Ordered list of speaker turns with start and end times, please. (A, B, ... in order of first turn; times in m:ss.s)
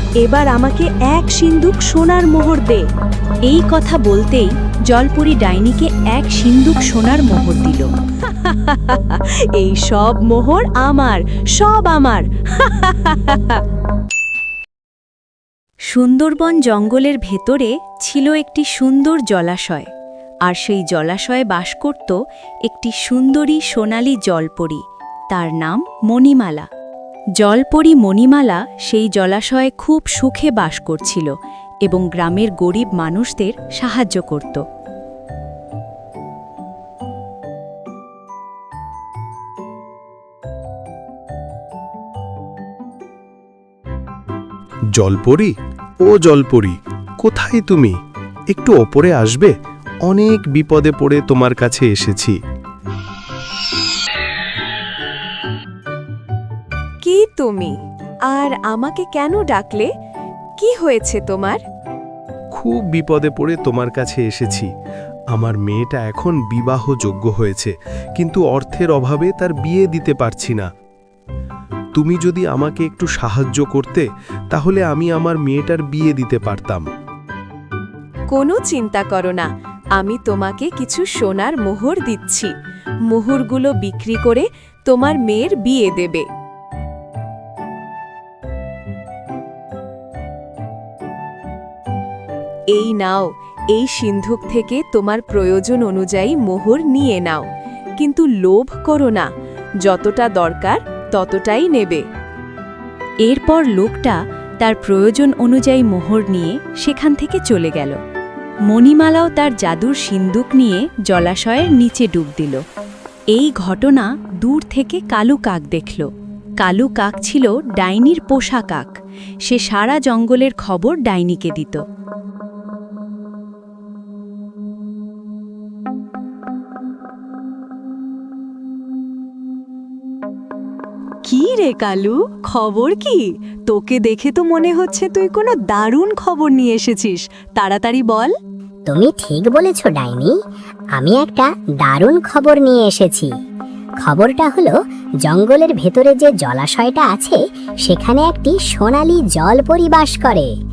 0:00.2-0:02.9 A
0:03.5-0:07.9 B
0:08.3-0:13.6 A
0:15.9-0:19.9 B
0:20.4-0:26.7 B
0:27.4-0:31.3 B
0:31.8-0:34.6 B
0:45.0-0:48.0 C
0:48.5-0:49.5 C
0:50.1-0:52.4 C
0:57.0-0:57.7 A
0:58.3-0:59.9 A
1:00.6-1:01.6 A
1:02.6-1:04.7 C
1:05.3-1:10.7 C
1:12.0-1:16.8 C
1:18.3-1:22.5 A
1:23.1-1:26.3 A
1:32.7-1:37.4 A
1:38.0-1:39.3 A
1:39.8-1:42.0 A
1:43.2-1:48.0 B
1:48.7-1:52.6 B
1:53.3-1:56.1 B
1:56.6-1:58.9 B
1:59.4-2:01.8 B
2:11.2-2:18.3 A
2:18.9-2:20.4 D
2:21.0-2:23.3 D
2:24.0-2:30.5 D